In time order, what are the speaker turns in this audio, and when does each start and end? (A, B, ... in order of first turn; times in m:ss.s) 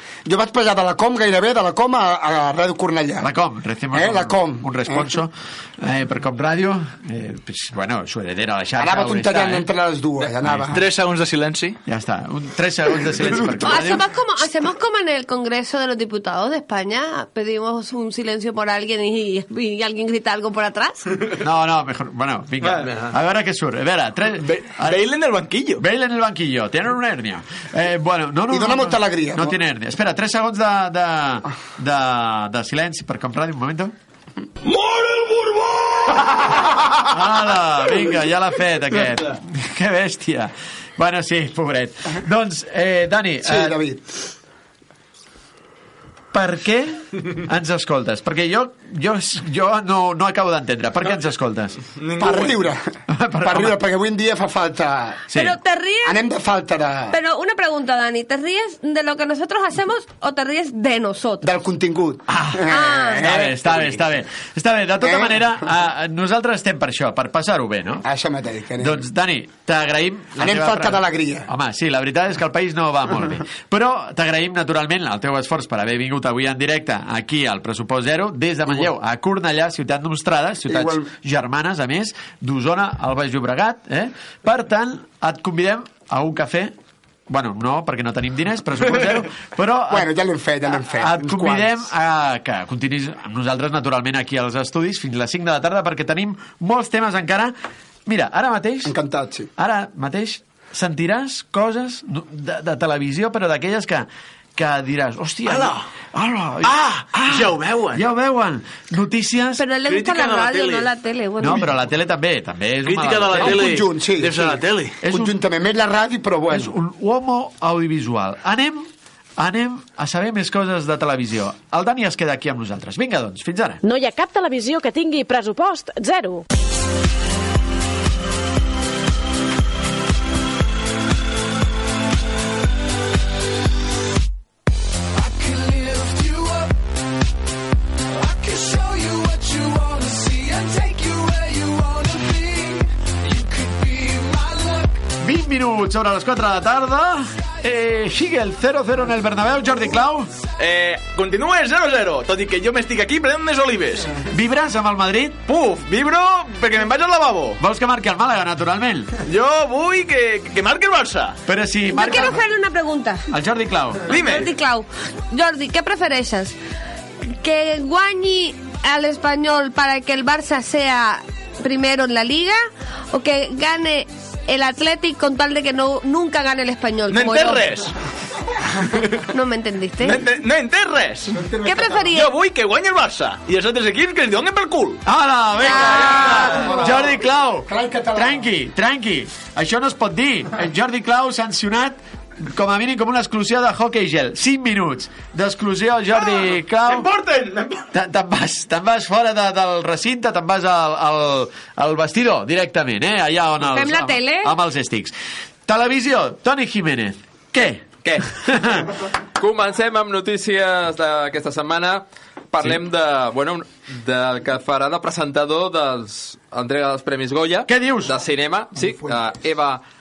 0:00.3-0:03.3 A
0:03.2-0:09.7 B
0:03.9-0:05.1 A
0:08.8-0:10.8 A
0:10.7-0:11.8 C
0:11.9-0:14.0 B
0:13.6-0:21.1 D
0:21.4-0:25.0 B
0:22.6-0:22.9 C
0:24.4-0:25.8 C
0:25.8-0:33.9 B
0:28.5-0:29.5 A
0:34.8-0:35.3 C
0:37.0-0:43.8 B
0:43.4-0:44.0 A
0:46.3-0:51.8 B
0:52.0-0:52.7 C
0:52.2-0:52.8 A
0:53.1-0:53.8 B
0:53.4-0:55.2 A
0:55.3-0:55.6 B
0:55.3-0:56.2 D
0:56.0-0:57.2 A
0:57.1-1:01.5 D
1:01.4-1:04.0 A
1:02.3-1:02.6 B
1:02.7-1:03.2 D
1:03.2-1:08.0 B
1:05.0-1:05.5 A
1:08.0-1:09.0 A
1:08.8-1:26.8 B
1:10.4-1:11.5 A
1:20.7-1:21.1 A
1:27.3-1:30.1 B
1:29.9-1:31.8 A
1:30.9-1:37.6 B
1:38.1-1:38.9 B
1:38.8-1:39.5 A
1:39.6-1:49.6 B
1:45.5-1:45.8 C
1:46.6-1:48.0 C
1:49.6-1:51.7 D
1:49.9-1:50.9 C
1:51.4-1:53.6 B
1:52.9-1:55.0 C
1:53.4-1:56.7 A
1:55.0-1:55.4 B
1:56.5-2:03.8 B
2:04.0-2:06.4 E
2:15.1-2:16.8 F
2:18.1-2:25.1 F
2:25.2-2:30.3 B
2:30.6-2:34.1 C
2:34.3-2:35.4 B
2:35.5-2:37.6 C
2:37.6-2:39.1 B
2:39.3-2:41.4 C
2:41.5-2:42.4 B
2:41.9-2:43.3 D
2:43.3-2:44.0 B
2:44.1-2:44.5 C
2:44.1-2:46.6 D
2:47.4-2:52.6 D
2:53.1-2:57.7 D
2:57.1-2:57.9 C
2:59.3-3:00.2 D
3:00.0-3:01.4 C
3:01.4-3:01.9 A
3:01.6-3:02.3 D
3:02.1-3:05.0 C
3:05.1-3:17.1 B
3:05.6-3:06.6 D
3:06.1-3:06.7 C
3:06.6-3:07.0 A
3:07.7-3:08.4 A
3:16.2-3:17.9 C
3:17.9-3:25.1 B
3:23.6-3:24.5 D
3:25.7-3:28.9 B
3:29.4-3:39.8 G
3:37.7-3:38.1 B